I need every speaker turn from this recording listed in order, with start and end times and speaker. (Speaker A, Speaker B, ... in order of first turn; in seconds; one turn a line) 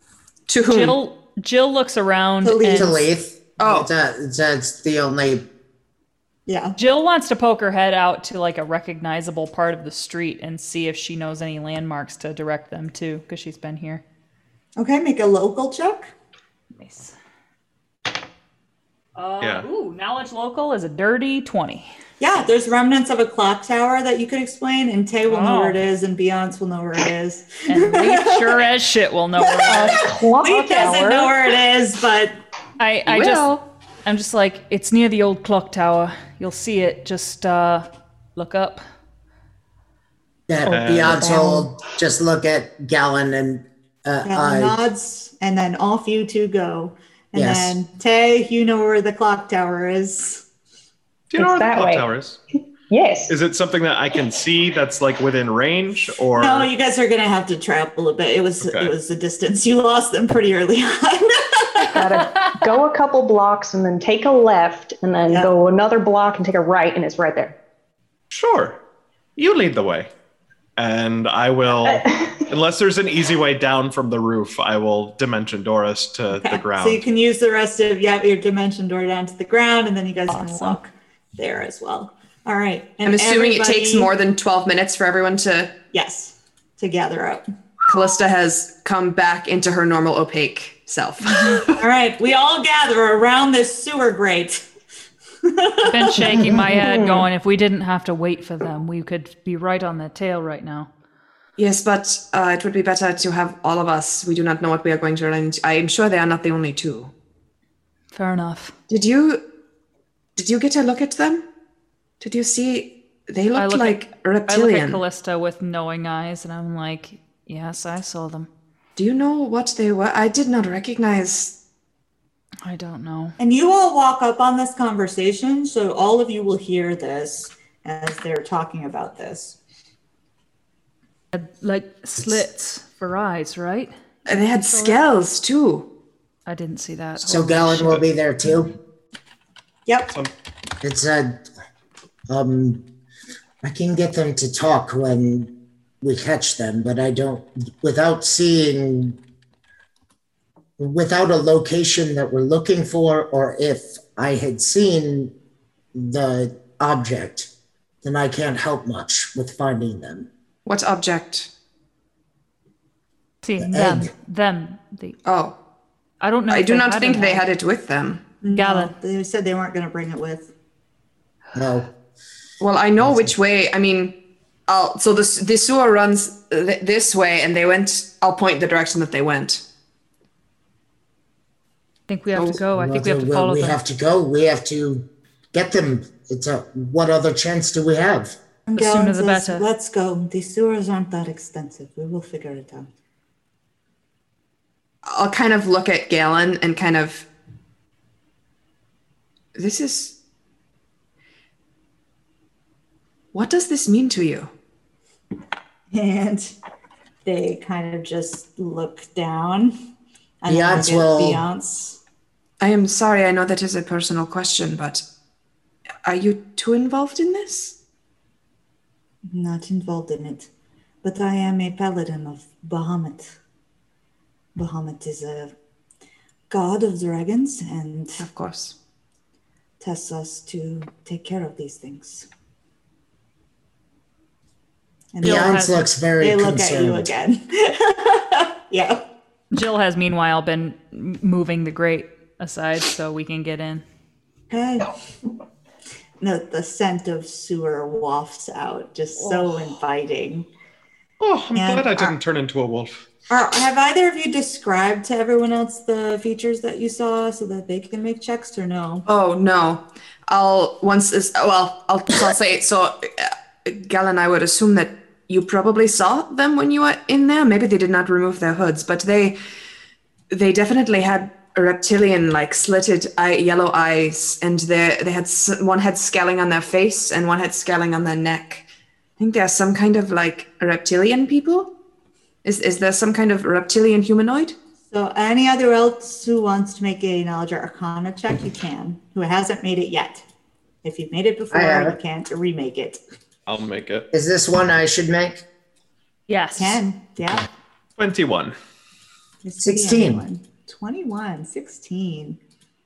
Speaker A: 0.5-1.0
Speaker B: 0.7-3.0
Speaker C: 2.4-3.0
Speaker D: 2.6-5.5
Speaker A: 3.6-3.9
Speaker C: 6.5-6.8
Speaker B: 6.8-14.0
Speaker C: 14.8-16.1
Speaker B: 16.8-17.1
Speaker B: 19.1-21.9
Speaker E: 19.4-19.6
Speaker C: 22.2-28.7
Speaker B: 25.3-25.8
Speaker B: 27.7-30.1
Speaker C: 29.5-32.4
Speaker F: 29.6-31.5
Speaker B: 32.8-38.8
Speaker A: 33.1-33.5
Speaker D: 40.5-44.8
Speaker E: 40.7-41.3
Speaker C: 41.1-41.7
Speaker C: 44.2-50.4
Speaker D: 47.3-47.8
Speaker E: 51.3-52.4
Speaker F: 51.4-52.1
Speaker F: 52.9-53.3
Speaker E: 53.3-56.7
Speaker C: 56.3-62.0
Speaker E: 58.6-58.9
Speaker F: 61.9-67.5
Speaker E: 68.3-68.8
Speaker E: 69.3-70.1
Speaker E: 70.8-77.0
Speaker F: 71.8-72.4
Speaker C: 76.3-84.1
Speaker B: 80.3-80.8
Speaker A: 83.0-85.8
Speaker C: 85.9-87.4
Speaker A: 87.9-91.8
Speaker B: 91.3-91.6
Speaker C: 91.8-94.6
Speaker C: 95.4-96.4
Speaker B: 95.8-100.9
Speaker F: 96.8-97.3
Speaker A: 101.6-107.1
Speaker B: 108.1-108.7
Speaker A: 108.9-109.4
Speaker A: 110.3-111.4
Speaker A: 112.2-115.0
Speaker B: 113.5-118.5
Speaker A: 119.0-121.5
Speaker B: 122.6-123.3
Speaker C: 123.4-129.6
Speaker B: 131.3-135.0
Speaker A: 134.3-135.8
Speaker B: 136.4-138.0
Speaker D: 137.2-138.7
Speaker C: 139.9-140.2
Speaker D: 140.8-141.4
Speaker D: 142.3-142.8
Speaker D: 143.6-149.2
Speaker D: 150.8-155.3
Speaker D: 155.9-157.5
Speaker D: 158.0-160.3
Speaker A: 160.7-161.5
Speaker B: 163.4-165.2
Speaker D: 163.6-164.1
Speaker A: 165.2-165.6
Speaker B: 166.2-167.4
Speaker A: 166.5-168.2
Speaker C: 168.4-170.5
Speaker B: 168.5-168.9
Speaker D: 171.5-171.9
Speaker A: 172.6-174.2
Speaker D: 173.0-173.3
Speaker A: 174.7-179.6
Speaker B: 182.1-183.8
Speaker D: 182.3-188.3
Speaker C: 188.7-192.9
Speaker B: 188.8-189.7
Speaker A: 195.1-197.3
Speaker A: 199.5-200.1
Speaker A: 203.3-204.5
Speaker C: 205.9-206.5
Speaker C: 207.2-209.7
Speaker C: 210.4-212.0
Speaker D: 210.5-211.4
Speaker A: 212.6-215.0
Speaker A: 216.0-217.7
Speaker C: 219.3-220.5
Speaker C: 221.0-223.3
Speaker C: 224.5-225.5
Speaker C: 226.5-228.2
Speaker A: 228.2-228.7
Speaker C: 229.8-232.3
Speaker C: 235.1-235.7
Speaker B: 235.2-235.8
Speaker D: 235.2-237.1
Speaker C: 236.2-239.0
Speaker B: 239.5-243.8
Speaker C: 244.5-244.9
Speaker C: 246.2-250.5
Speaker E: 251.2-253.0
Speaker C: 251.5-252.2
Speaker C: 253.3-259.1
Speaker A: 259.1-269.4
Speaker A: 270.3-278.6
Speaker A: 279.2-281.7
Speaker A: 282.4-284.6
Speaker C: 284.9-290.2
Speaker C: 290.8-293.0
Speaker D: 291.5-292.0
Speaker E: 293.5-294.1
Speaker D: 294.1-295.4
Speaker B: 296.3-296.8
Speaker C: 296.6-297.5
Speaker E: 298.0-298.5
Speaker C: 299.4-302.4
Speaker D: 299.6-300.2